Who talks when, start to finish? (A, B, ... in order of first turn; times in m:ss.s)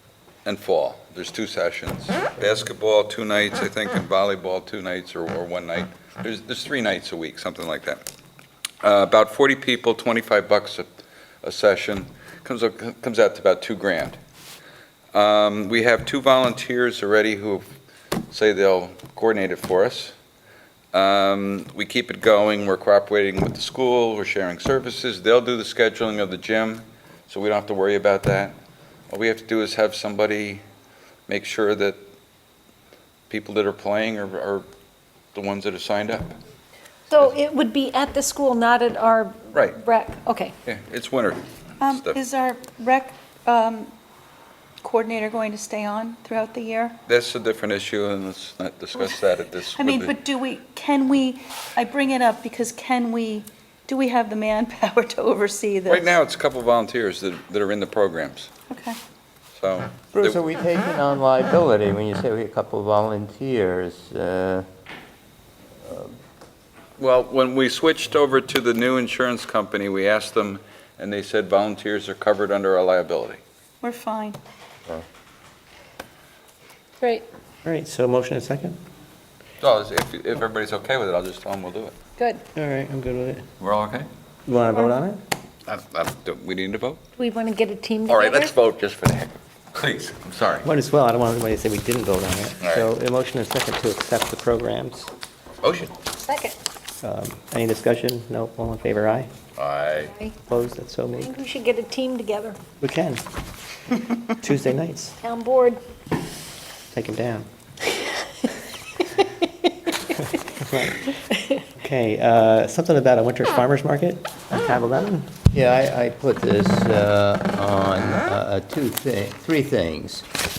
0:00.4-0:08.0 A
0:08.8-0:10.9 A
0:11.4-0:14.2 A
0:15.1-0:17.7 A
0:18.3-0:20.2 A
0:20.9-0:28.6 A
0:29.1-0:30.6 A
0:31.3-0:32.0 A
0:33.3-0:34.7 A
0:35.3-0:36.4 A
0:37.1-0:40.5 B
0:39.5-0:39.8 A
0:40.7-0:42.2 A
0:41.8-0:43.9 C
0:44.8-0:47.0 C
0:47.1-0:50.1 A
0:49.8-0:56.2 C
0:55.9-0:58.5 A
0:58.7-0:59.0 C
0:59.6-1:00.4 A
1:00.1-1:04.7 D
1:07.0-1:13.4 A
1:13.8-1:14.4 C
1:17.6-1:18.8 E
1:19.6-1:22.0 A
1:22.2-1:22.4 B
1:22.5-1:23.4 E
1:23.6-1:24.1 A
1:24.5-1:25.2 E
1:25.7-1:27.0 A
1:27.2-1:28.5 B
1:28.1-1:30.7 A
1:30.6-1:35.1 E
1:32.6-1:32.9 A
1:35.6-1:36.0 A
1:36.2-1:36.6 B
1:37.0-1:39.3 E
1:39.6-1:40.1 A
1:40.0-1:40.4 B
1:40.5-1:41.3 E
1:41.2-1:42.6 B
1:42.8-1:43.2 E
1:44.3-1:45.2 E
1:45.2-1:45.8 B
1:46.9-1:47.5 E
1:50.6-1:51.0 E
1:51.8-1:55.4 E
1:55.5-2:00.3 D